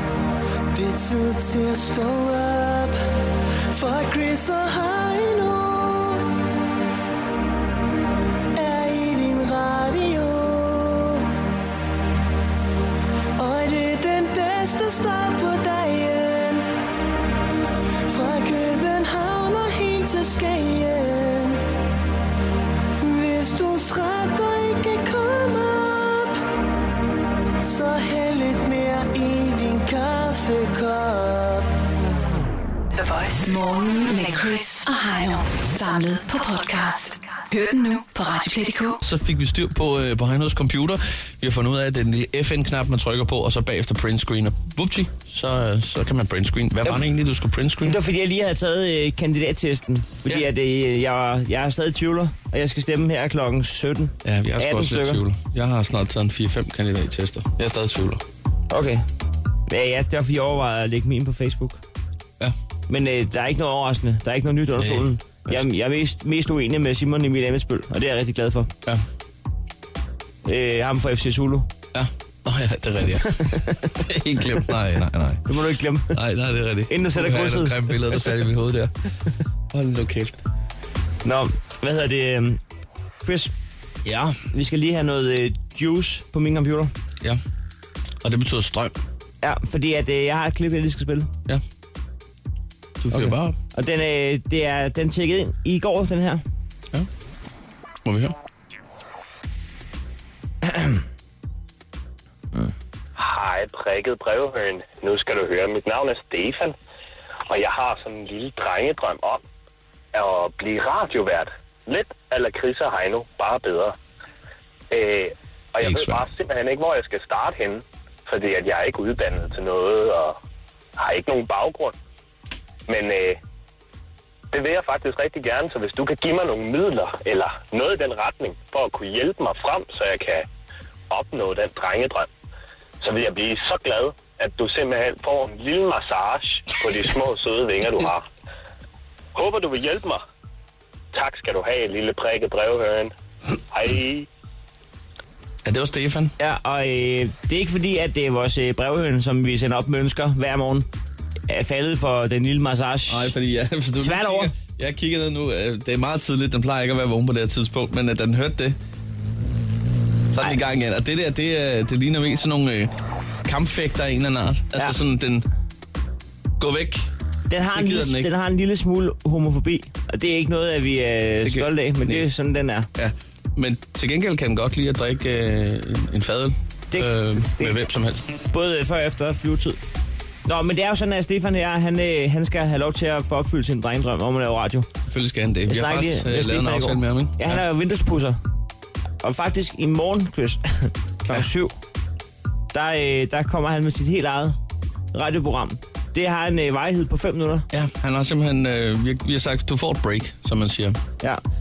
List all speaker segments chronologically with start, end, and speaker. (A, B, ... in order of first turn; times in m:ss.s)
0:00.7-0:03.0 A
0:03.7-0:06.3 A
0:08.6-0:11.3 A
0:13.4-0:16.7 A
0:18.1-0:21.6 A
0:23.0-0:26.4 A
0:27.6-0:31.7 A
0:33.0-0:39.0 B
0:39.0-0:48.0 C
0:47.8-0:55.2 D
0:54.2-0:58.2 C
0:58.7-0:59.0 D
0:59.7-1:01.8 D
1:02.9-1:08.7 D
1:04.8-1:05.6 C
1:10.4-1:11.7 D
1:11.9-1:15.4 C
1:13.4-1:13.9 D
1:15.5-1:16.2 D
1:16.1-1:18.9 C
1:16.9-1:18.3 D
1:19.7-1:20.4 C
1:21.2-1:22.6 D
1:23.2-1:23.5 D
1:24.0-1:24.4 C
1:24.5-1:26.9 D
1:28.2-1:29.0 C
1:29.4-1:31.3 D
1:33.0-1:33.6 C
1:33.1-1:36.4 D
1:38.0-1:38.4 C
1:40.6-1:41.0 D
1:43.2-1:46.8 E
1:47.5-1:49.4 E
1:50.1-1:54.0 E
1:54.9-2:00.4 E
1:55.8-1:56.2 C
2:01.0-2:02.0 E
2:02.9-2:03.4 E
2:04.5-2:10.5 E
2:11.1-2:12.3 E
2:13.0-2:18.2 E
2:19.4-2:20.2 E
2:21.1-2:23.1 E
2:23.7-2:24.3 E
2:25.6-2:26.3 C
2:26.4-2:30.9 D
2:31.5-2:33.3 D
2:33.1-2:38.8 C
2:34.0-2:34.5 D
2:40.3-2:42.9 C
2:43.4-2:45.4 C
2:46.6-2:47.1 C
2:47.5-2:52.9 D
2:47.8-2:48.3 C
2:51.4-2:52.3 C
2:53.0-2:58.2 C
2:56.9-2:57.8 D
2:58.5-2:59.8 D
3:00.5-3:04.9 D
3:05.1-3:07.6 C
3:05.7-3:08.4 D
3:09.2-3:11.8 D
3:12.7-3:14.6 D
3:15.1-3:17.7 D
3:17.7-3:21.0 C